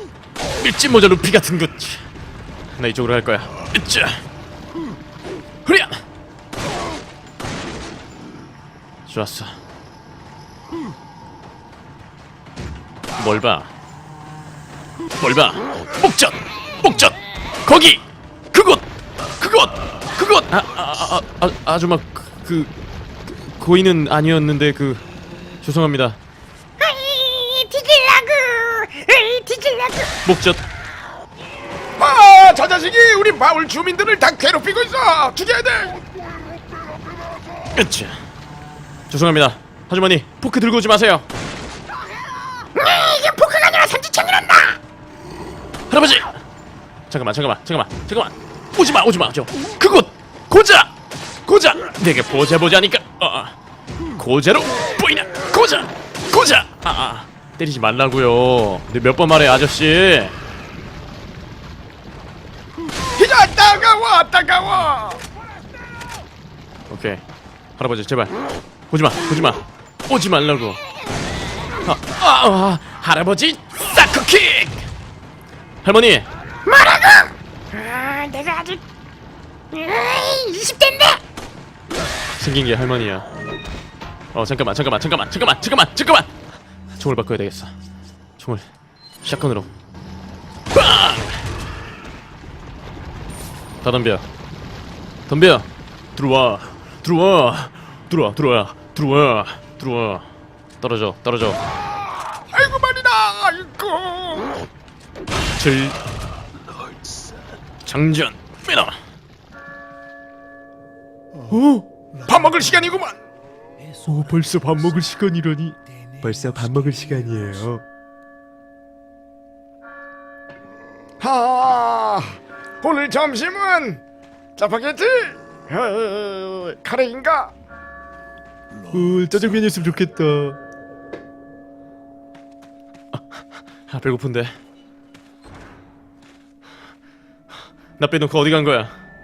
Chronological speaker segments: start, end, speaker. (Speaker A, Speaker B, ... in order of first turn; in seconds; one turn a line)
Speaker A: 0.5-2.1
Speaker A: 2.8-4.2
Speaker A: 5.6-6.0
Speaker A: 9.1-9.6
Speaker A: 13.2-13.7
Speaker A: 15.1-22.7
Speaker A: 23.2-25.0
Speaker A: 25.6-26.2
Speaker B: 26.8-30.1
Speaker A: 30.2-30.6
Speaker B: 32.0-36.1
Speaker A: 37.7-38.2
Speaker A: 39.1-41.2
Speaker B: 42.7-44.8
Speaker A: 45.9-46.4
Speaker A: 47.1-50.9
Speaker A: 51.5-53.6
Speaker A: 54.1-60.4
Speaker B: 63.1-65.2
Speaker A: 66.9-67.2
Speaker A: 67.8-68.3
Speaker A: 68.9-70.8
Speaker A: 71.8-74.9
Speaker A: 75.8-76.3
Speaker B: 76.6-78.8
Speaker B: 79.7-81.2
Speaker A: 82.4-83.3
Speaker A: 84.3-86.3
Speaker A: 87.0-87.7
Speaker A: 88.4-88.7
Speaker A: 89.2-89.7
Speaker A: 90.7-91.5
Speaker A: 93.8-94.3
Speaker A: 95.3-100.3
Speaker A: 100.8-101.6
Speaker B: 102.5-104.5
Speaker A: 105.5-106.0
Speaker A: 107.8-109.0
Speaker A: 111.5-113.0
Speaker B: 112.4-113.1
Speaker A: 114.0-117.8
Speaker B: 121.2-124.0
Speaker B: 124.6-127.5
Speaker A: 128.9-130.6
Speaker A: 133.1-134.6
Speaker A: 138.0-138.9